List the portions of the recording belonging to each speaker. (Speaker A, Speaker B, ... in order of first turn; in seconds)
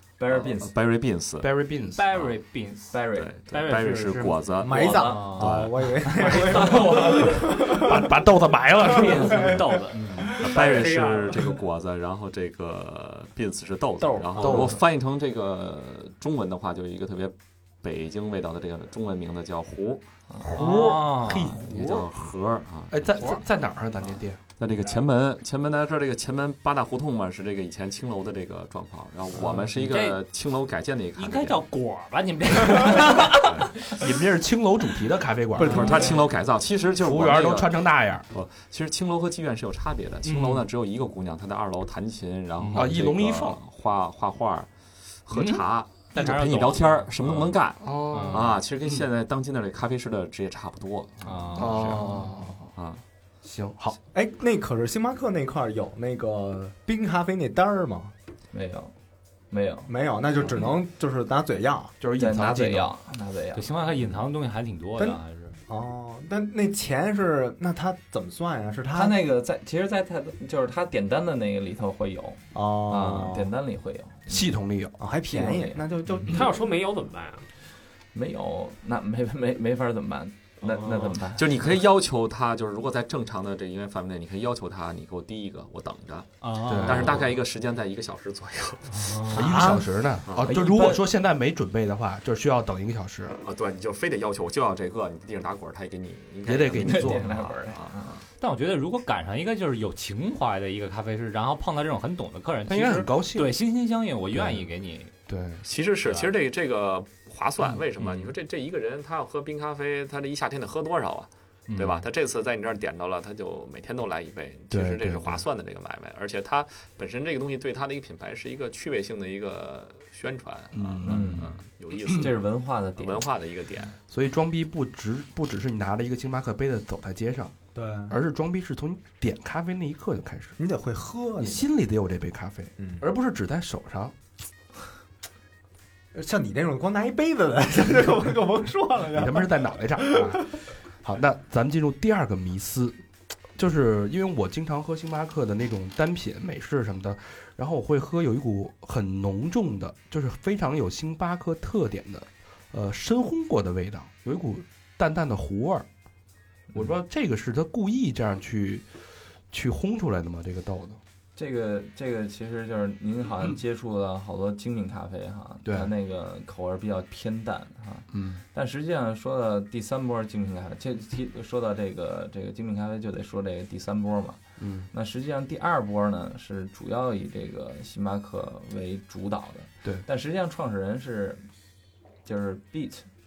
Speaker A: 0.2-0.7, 2.9-3.3, 4.7-5.4, 6.6-7.0, 20.3-20.6, 58.5-58.9, 59.5-59.9, 62.2-63.7, 68.9-74.5, 75.3-75.8, 78.1-81.5, 90.5-91.0, 96.8-98.2, 121.0-121.5, 122.1-123.3, 161.4-174.4, 174.9-181.5, 182.2-183.1
Speaker B: 0.3-1.5, 3.1-6.0, 10.3-20.1, 21.6-23.5, 24.6-31.6, 33.2-33.7, 35.6-44.7, 45.3-53.0, 81.3-89.2, 90.2-90.7, 93.4-98.2, 105.7-122.5, 123.0-124.0
Speaker C: 1.4-2.1, 7.7-9.7, 14.4-14.8, 20.4-22.3, 22.9-24.4, 33.9-35.9, 37.0-38.3, 42.7-43.6, 47.8-49.0, 51.6-52.7, 53.4-54.0, 62.0-62.9, 74.3-75.0, 86.7-87.3, 89.3-93.4, 96.4-97.2, 102.7-103.6, 104.3-104.7, 105.3-105.7, 114.7-115.4, 120.7-121.5, 122.1-122.3, 124.1-127.5, 128.1-130.6, 131.4-134.2, 139.1-143.0, 143.6-155.9, 156.7-158.9, 159.5-161.0, 165.6-165.9, 168.1-168.4, 174.6-174.9
Speaker D: 1.9-7.5, 8.8-10.4, 20.5-21.6, 29.4-30.2, 31.2-34.0, 35.6-36.2, 40.2-40.6, 42.6-43.0, 45.3-48.6, 51.2-52.2, 63.5-65.6, 86.4-87.3, 98.4-105.1, 106.0-106.3, 108.0-108.3, 111.7-112.1
Speaker E: 4.6-8.0, 9.2-9.6, 10.3-10.7, 14.0-14.7, 35.6-36.2, 54.1-58.1, 59.9-62.0, 65.0-69.2, 72.5-73.5, 75.0-76.6, 89.2-89.9, 127.8-128.2, 130.6-131.6, 132.8-133.1, 136.1-140.5
Speaker F: 10.5-11.5, 76.3-77.5, 80.7-81.1